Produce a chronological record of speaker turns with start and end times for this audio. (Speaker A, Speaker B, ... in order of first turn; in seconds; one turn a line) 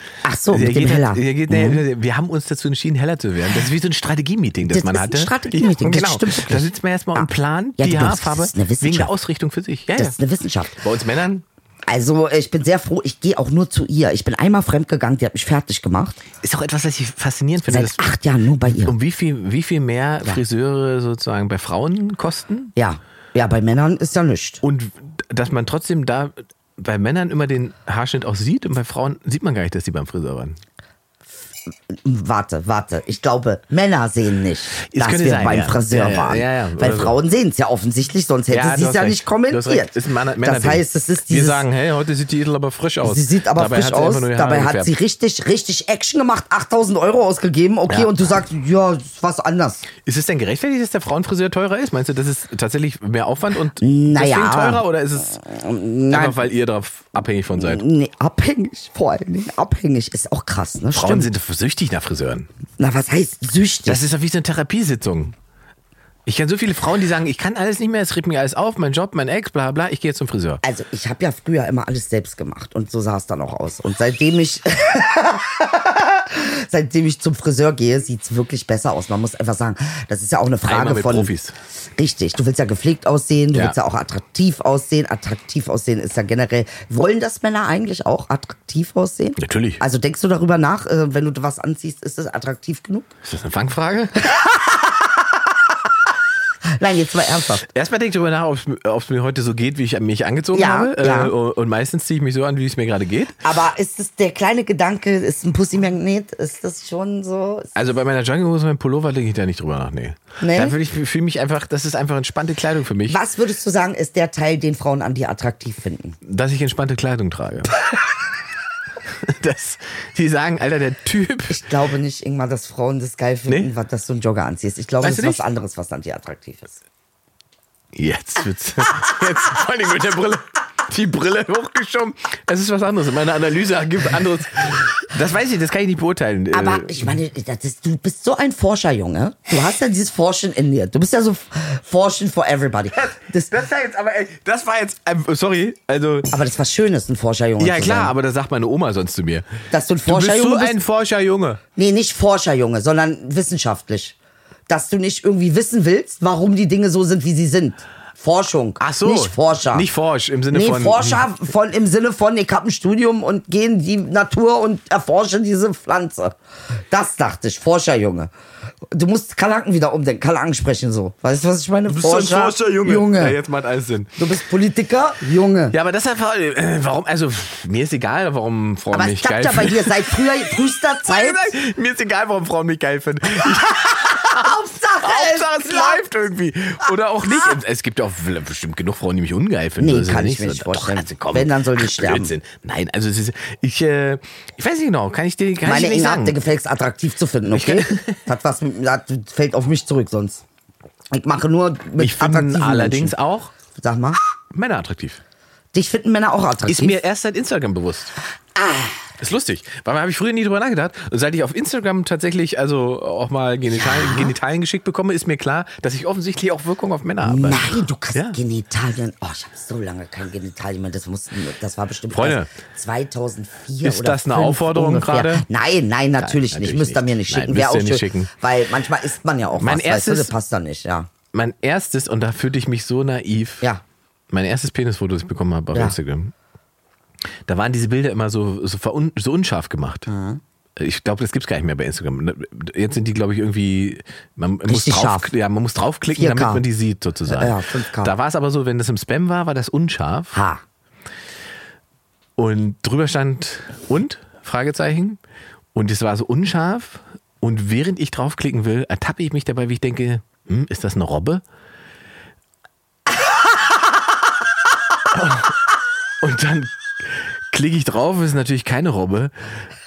Speaker A: 0.2-1.8
Speaker B: 0.5-10.2
Speaker A: 4.7-9.1
Speaker A: 9.9-10.8
Speaker B: 10.8-11.4
Speaker A: 11.9-16.2
Speaker B: 16.4-18.1
Speaker A: 17.7-18.9
Speaker B: 18.7-22.7
Speaker A: 22.8-24.6
Speaker B: 24.6-30.6
Speaker A: 31.9-41.6
Speaker B: 34.9-37.1
Speaker B: 38.5-44.9
Speaker A: 43.0-49.8
Speaker B: 50.0-55.4
Speaker A: 53.8-56.4
Speaker B: 56.1-57.8
Speaker A: 57.5-61.3
Speaker B: 60.9-62.5
Speaker A: 62.8-64.0
Speaker B: 63.9-65.3
Speaker B: 66.2-70.6
Speaker A: 70.6-81.3
Speaker B: 80.6-81.5
Speaker A: 82.0-93.1
Speaker B: 89.4-89.8
Speaker B: 93.2-94.5
Speaker A: 94.3-94.7
Speaker A: 96.8-97.6
Speaker B: 97.6-103.4
Speaker A: 100.5-101.3
Speaker A: 103.4-107.7
Speaker B: 107.7-113.2
Speaker A: 110.4-110.8
Speaker A: 113.1-116.2
Speaker B: 116.2-117.7
Speaker B: 119.2-121.6
Speaker A: 121.5-126.8
Speaker B: 125.0-125.4
Speaker B: 127.9-137.2
Speaker A: 136.5-143.5
Speaker B: 143.0-146.3
Speaker A: 146.3-148.1
Speaker B: 147.6-149.5
Speaker A: 149.7-150.8
Speaker B: 150.1-151.6
Speaker A: 151.8-154.2
Speaker A: 154.7-159.9
Speaker B: 158.8-161.2
Speaker A: 160.5-166.3
Speaker A: 166.9-168.3
Speaker A: 168.9-173.4
Speaker B: 171.9-174.2
Speaker A: 174.2-175.7
Speaker B: 175.7-180.2
Speaker A: 178.9-181.5
Speaker B: 181.0-196.4
Speaker A: 184.2-186.0
Speaker A: 189.8-192.3
Speaker A: 195.6-200.4
Speaker B: 197.5-198.2
Speaker A: 201.1-203.1
Speaker B: 202.0-203.5
Speaker A: 203.7-204.2
Speaker B: 204.5-205.2
Speaker A: 205.7-207.0
Speaker B: 206.7-208.1
Speaker A: 208.5-209.0
Speaker B: 209.2-218.4
Speaker A: 213.7-214.3
Speaker A: 217.2-231.1
Speaker B: 222.1-222.5
Speaker B: 223.8-225.4
Speaker B: 226.2-228.3
Speaker B: 229.6-230.3
Speaker B: 231.3-233.7
Speaker B: 234.3-236.3
Speaker B: 237.4-240.1
Speaker A: 240.1-240.4
Speaker B: 240.8-250.4
Speaker A: 244.7-245.3
Speaker A: 246.1-246.6
Speaker A: 247.3-248.1
Speaker A: 250.3-250.6
Speaker B: 252.4-255.2
Speaker B: 255.7-261.4
Speaker B: 265.1-265.6
Speaker B: 266.2-269.3